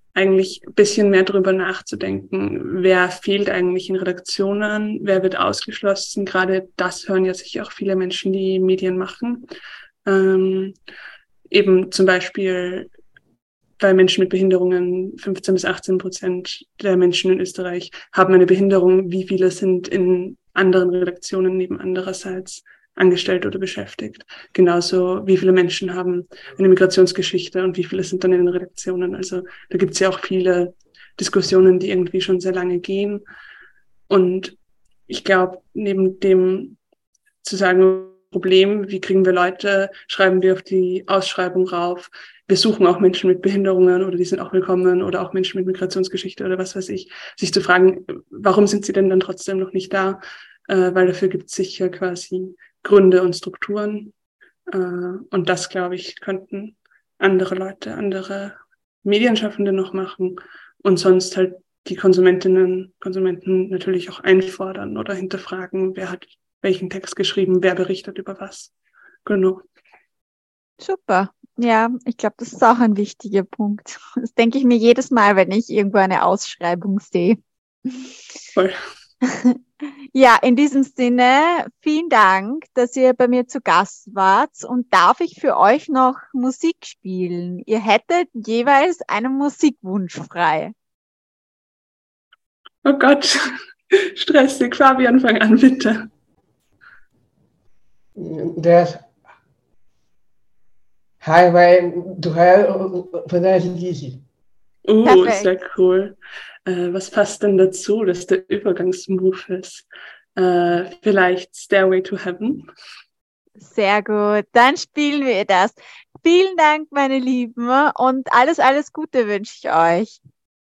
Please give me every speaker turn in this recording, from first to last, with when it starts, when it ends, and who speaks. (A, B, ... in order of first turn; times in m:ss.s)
0:00.1-0:09.4 A
0:10.0-0:10.7 A
0:11.5-0:12.9 A
0:13.8-0:33.2 A
0:34.1-0:34.6 A
0:35.1-0:36.8 A
0:37.4-0:54.1 A
0:54.7-1:08.7 A
1:09.2-1:09.6 A
1:10.8-1:17.4 B
1:19.2-1:19.6 B
1:20.1-1:30.7 B
1:32.8-1:36.1 A
1:38.2-1:39.0 C
1:41.2-1:44.2 C
1:44.8-1:52.7 A
1:45.0-1:45.5 B
1:53.6-2:00.2 B